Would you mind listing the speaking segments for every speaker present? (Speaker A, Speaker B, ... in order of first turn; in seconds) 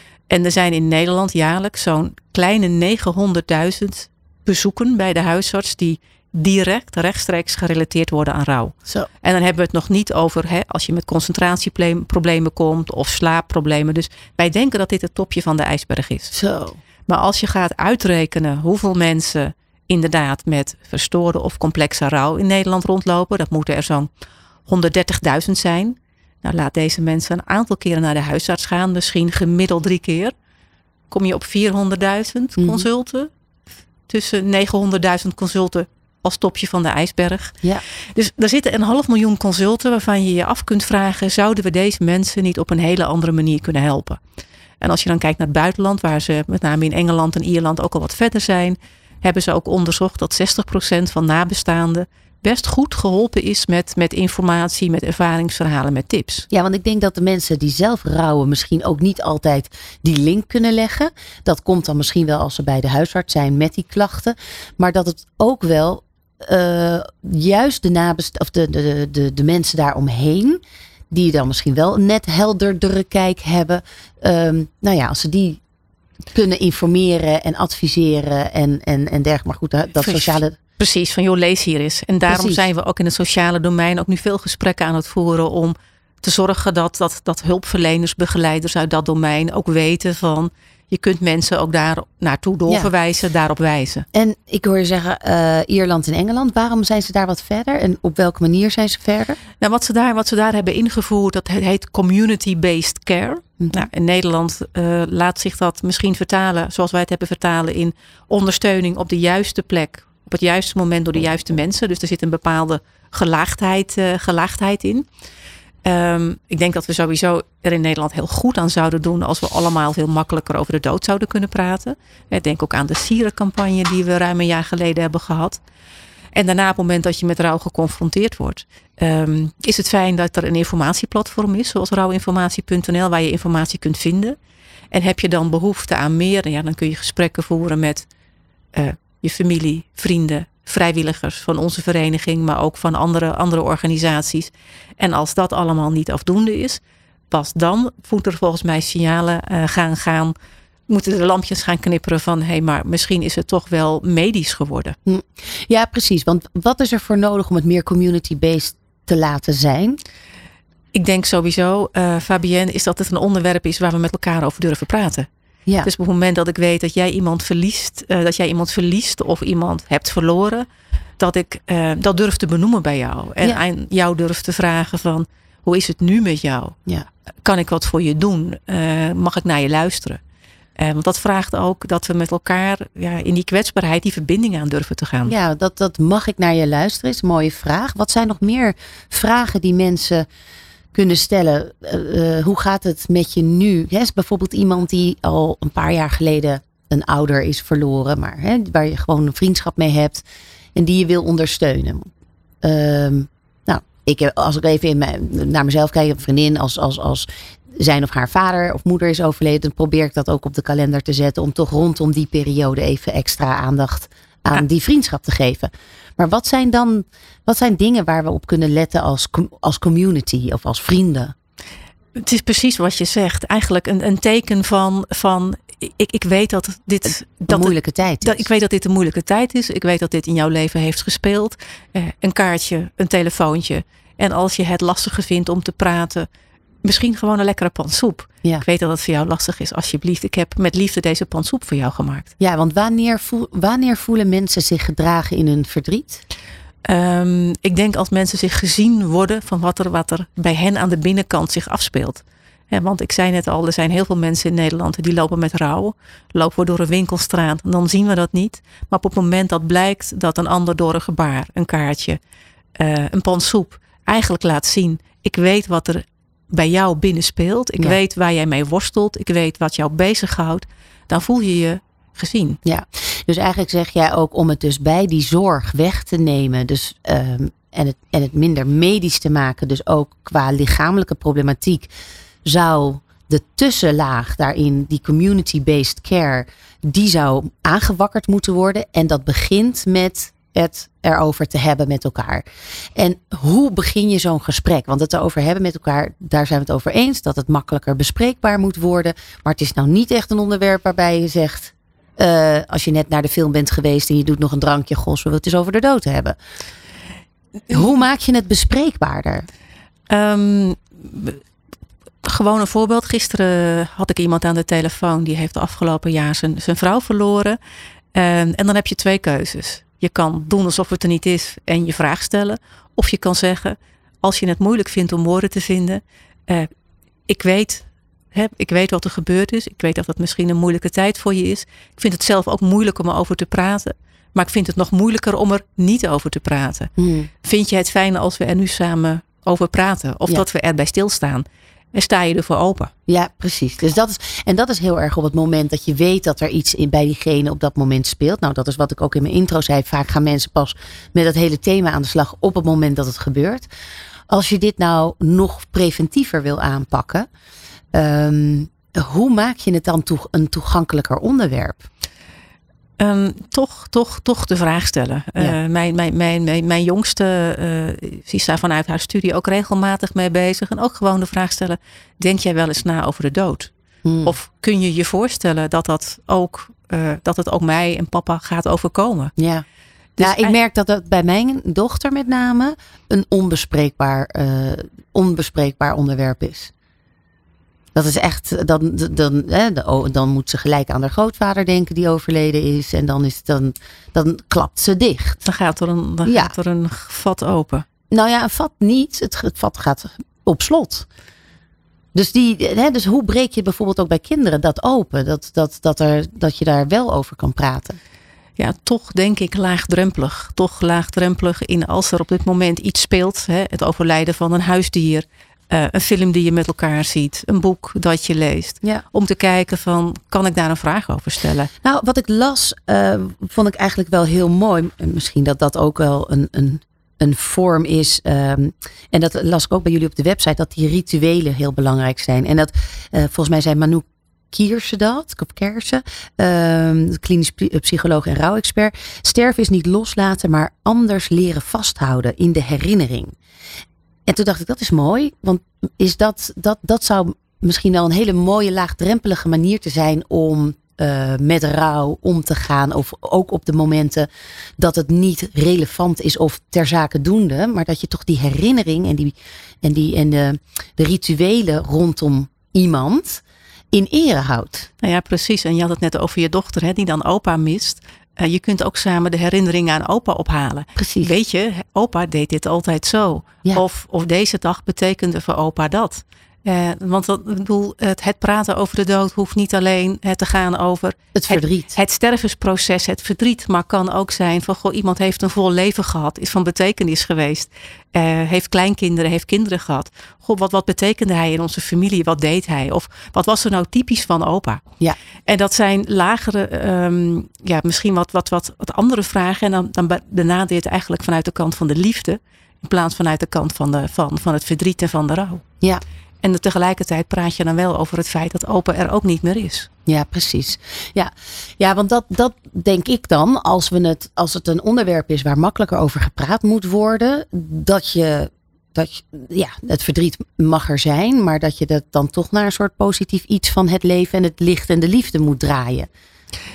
Speaker A: 0.3-16.4, 17.1-24.1, 24.7-30.3, 31.1-33.3, 34.1-44.2, 44.8-56.5, 80.0-94.1, 99.6-115.1, 115.8-125.6, 126.3-134.4, 134.9-138.1, 138.7-150.3, 150.9-155.0, 160.9-165.3, 165.8-170.7, 171.2-176.8, 177.4-180.2, 180.8-185.3, 222.2-236.3, 236.8-242.3, 246.8-262.2, 262.8-272.6, 310.1-311.4, 312.2-317.6, 318.1-326.7, 327.3-336.9, 337.4-342.9, 363.0-373.7, 374.2-379.3, 380.2-380.6, 395.4-397.9, 408.6-421.7, 465.0-494.8, 495.5-505.6, 506.4-509.9
Speaker B: 16.3-16.8, 32.6-32.9, 56.5-70.6, 71.1-75.6, 76.3-80.6, 82.3-82.6, 94.1-99.4, 155.1-160.0, 185.3-190.3, 190.9-200.2, 200.8-202.1, 202.6-221.3, 227.5-228.5, 242.4-246.2, 272.6-281.9, 282.4-292.4, 293.0-306.4, 307.7-309.5, 337.0-337.3, 343.1-353.7, 354.3-357.3, 357.9-361.9, 374.1-374.4, 379.4-379.6, 380.2-386.7, 387.9-395.4, 396.2-396.5, 398.1-401.1, 402.1-408.0, 421.8-443.4, 444.3-464.9, 471.0-471.3, 481.4-482.0, 510.1-526.1